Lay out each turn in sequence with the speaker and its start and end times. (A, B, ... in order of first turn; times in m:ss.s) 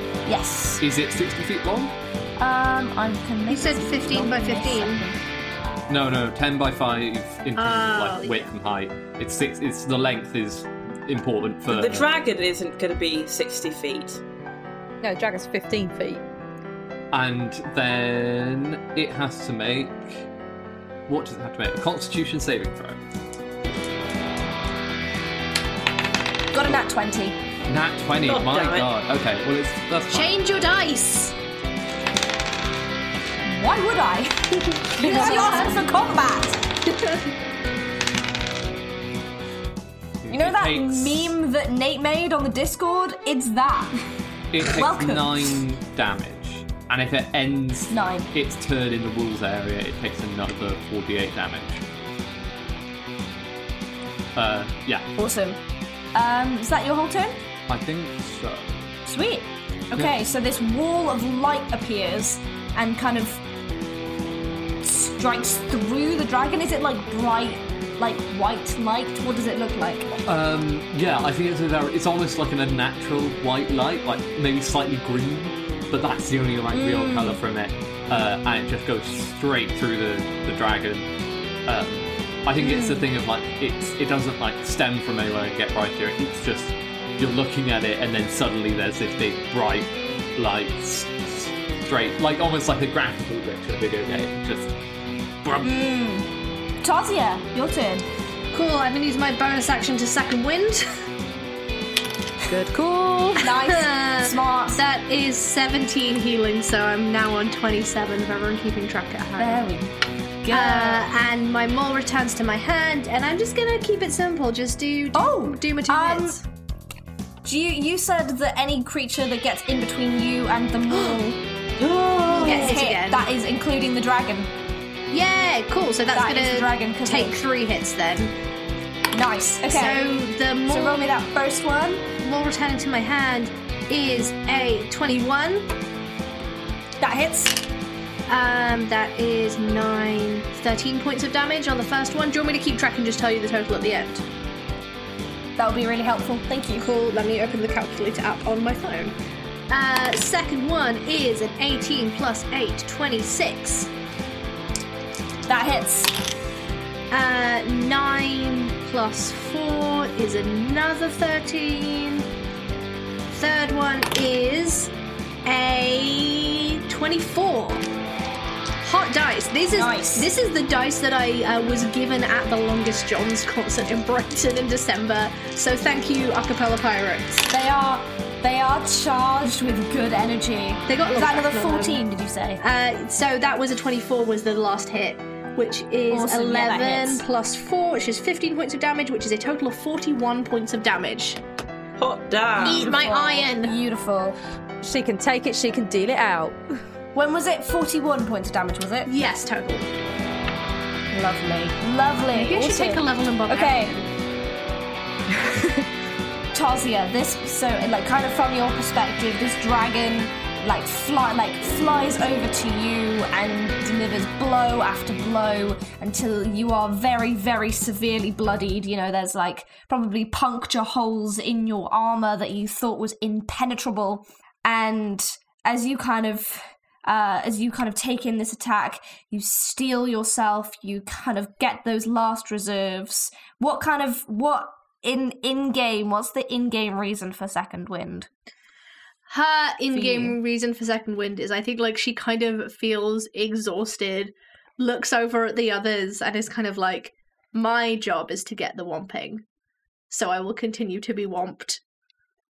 0:00.3-0:00.8 A
0:00.8-0:02.0 B
0:02.4-0:05.2 A
0:03.5-0:05.0 C
0:05.9-0:12.1 B
0:07.6-0:08.4 C
0:11.7-0:14.2 D
0:15.0-0:16.2 E
0:17.1-0:20.2 B
0:21.1-0:23.0 B
0:26.5-0:27.4 A
0:27.7-0:30.3 B
0:28.2-0:28.9 D
0:30.1-0:31.3 C
0:33.4-0:36.6 A
0:35.0-0:35.8 C
0:40.2-0:41.4 B
0:40.3-0:43.9 A
0:44.5-0:51.8 B
0:44.7-0:45.4 A
0:47.9-0:48.3 A
0:54.4-0:55.1 B
0:55.2-0:55.6 A
0:56.2-0:57.4 A
0:57.7-0:58.8 B
0:59.1-1:03.4 A
1:04.8-1:10.1 A
1:10.2-1:21.1 B
1:16.7-1:17.4 A
1:21.7-1:34.7 B
1:22.6-1:23.0 A
1:35.4-1:35.7 B
1:35.6-1:36.3 A
1:36.8-1:38.0 A
1:38.5-1:40.8 C
1:42.5-1:43.5 E
1:43.4-1:44.8 A
1:43.5-1:49.7 C
1:49.4-1:51.1 A
1:50.5-1:56.4 C
1:55.2-1:56.4 A
1:57.4-2:01.4 A
2:01.8-2:02.5 D
2:02.2-2:04.5 A
2:02.3-2:03.2 C
2:05.1-2:08.4 C
2:06.2-2:07.4 A
2:09.1-2:10.0 A
2:09.7-2:11.1 C
2:10.7-2:12.0 A
2:12.2-2:15.7 C
2:17.0-2:17.6 A
2:18.3-2:24.2 C
2:25.6-2:26.9 A
2:26.8-2:29.2 C
2:29.7-2:33.9 C
2:35.5-2:36.1 A
2:37.1-2:42.3 C
2:43.3-2:44.9 C
2:45.4-2:47.8 C
2:48.8-2:58.0 C
2:49.7-2:50.3 A
2:57.6-3:02.6 A
3:00.9-3:02.0 C
3:02.6-3:11.4 C
3:06.1-3:07.2 A
3:12.0-3:13.0 D
3:12.6-3:13.8 C
3:12.6-3:14.4 A
3:14.8-3:16.6 E
3:17.2-3:19.1 A
3:19.1-3:19.9 C
3:21.1-3:24.0 A
3:22.3-3:24.1 C
3:25.3-3:25.8 E
3:26.5-3:58.3 A
3:59.3-4:09.4 C
3:59.9-4:00.4 A
4:10.1-4:11.8 C